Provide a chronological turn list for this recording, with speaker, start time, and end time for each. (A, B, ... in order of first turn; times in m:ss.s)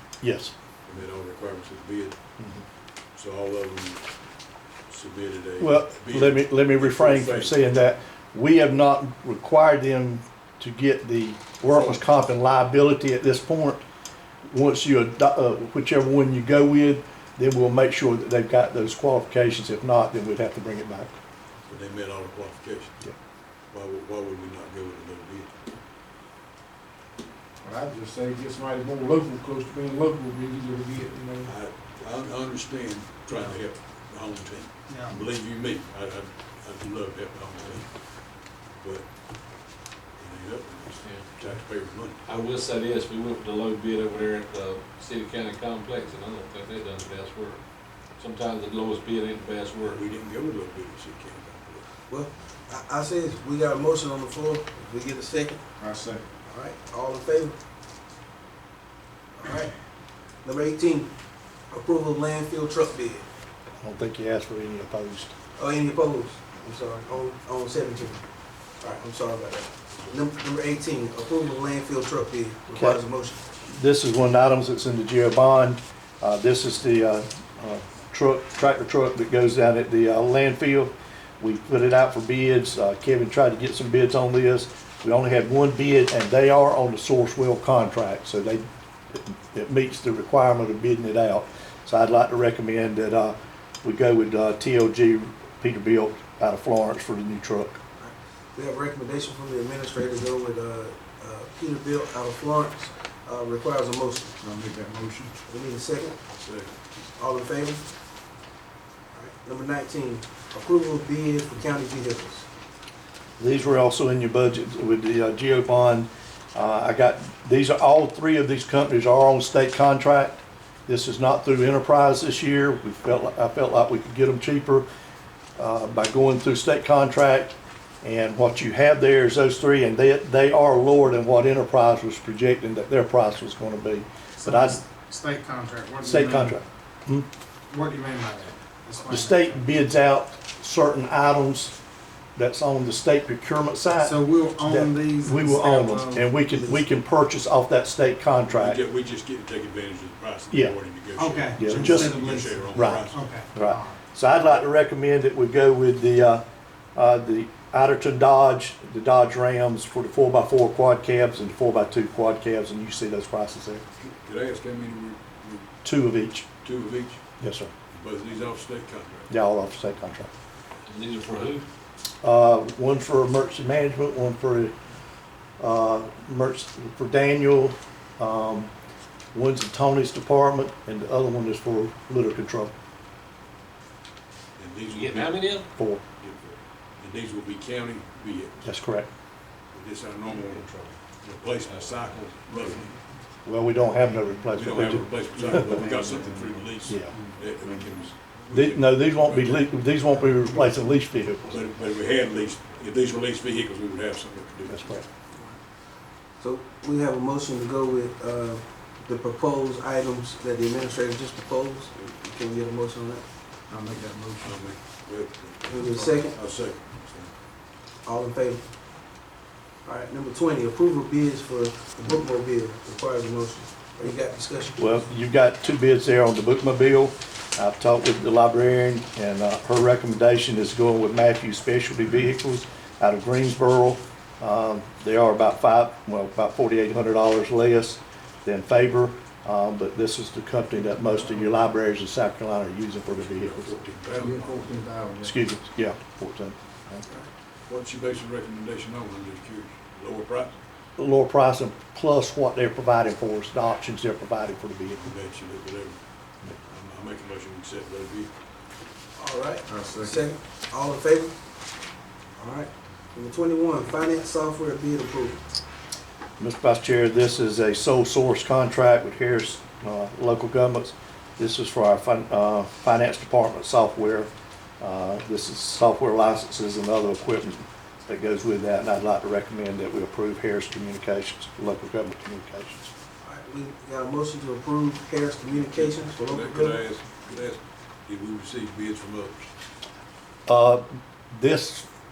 0:00.2-0:00.5 A
0:00.9-0:02.2 B
0:03.1-0:04.0 B
0:04.9-0:07.7 B
0:05.6-0:13.8 A
0:14.5-0:21.1 A
0:21.7-0:23.0 B
0:23.7-0:25.5 B
0:27.6-0:31.5 C
0:31.4-0:39.1 B
0:40.2-0:42.2 B
0:41.0-0:41.3 D
0:42.2-0:47.6 D
0:48.2-0:50.0 D
0:49.8-0:51.9 B
0:52.1-0:55.6 E
0:55.8-0:56.2 C
0:56.5-0:57.6 E
0:59.4-0:59.7 E
1:00.4-1:01.1 E
1:01.7-1:03.2 E
1:03.8-1:05.3 A
1:05.6-1:08.2 E
1:08.8-1:13.5 E
1:12.7-1:13.0 A
1:13.7-1:37.8 A
1:38.0-1:44.4 E
1:44.4-1:45.4 C
1:45.5-1:46.2 E
1:46.3-1:46.8 B
1:47.1-1:47.9 E
1:49.1-1:52.5 E
1:53.4-2:04.9 A
2:05.6-2:14.8 A
2:14.4-2:16.6 F
2:16.0-2:17.3 A
2:17.7-2:19.6 F
2:19.0-2:21.8 A
2:22.4-2:28.8 A
2:23.9-2:26.6 F
2:28.5-2:33.3 B
2:30.5-2:30.8 A
2:31.2-2:34.0 F
2:31.5-2:36.4 A
2:37.0-2:43.8 A
2:44.0-2:45.7 B
2:45.8-2:46.5 A
2:46.6-2:47.2 B
2:47.4-2:47.7 A
2:47.9-2:49.3 B
2:49.3-2:50.3 A
2:50.9-2:51.6 D
2:52.2-2:54.7 A
2:55.6-2:58.7 A
2:59.3-3:02.7 A
3:04.6-3:05.6 B
3:04.9-3:05.7 D
3:05.8-3:06.0 A
3:06.2-3:08.7 B
3:08.6-3:09.1 A
3:09.7-3:12.9 B
3:10.7-3:10.9 C
3:11.6-3:12.7 D
3:13.4-3:15.8 A
3:14.5-3:19.7 B
3:15.8-3:16.1 F
3:16.1-3:18.1 C
3:16.8-3:17.1 A
3:18.5-3:21.6 A
3:20.3-3:20.5 F
3:21.5-3:25.0 B
3:24.7-3:25.0 A
3:26.4-3:33.2 E
3:33.7-3:34.7 C
3:34.4-3:37.3 B
3:35.7-3:36.4 E
3:38.0-3:38.6 E
3:39.8-3:45.0 E
3:44.8-4:03.8 A
4:01.2-4:01.4 C
4:03.2-4:04.8 B
4:04.1-4:05.4 C
4:05.2-4:07.0 A
4:07.7-4:10.6 B
4:11.0-4:15.1 A
4:14.9-4:16.0 B
4:16.6-4:18.3 B
4:19.2-4:21.4 E
4:19.7-4:20.2 C
4:22.4-4:25.4 E
4:26.4-4:34.3 A
4:34.8-4:42.9 A
4:43.2-4:46.8 E
4:45.6-4:49.5 B
4:50.5-4:51.9 A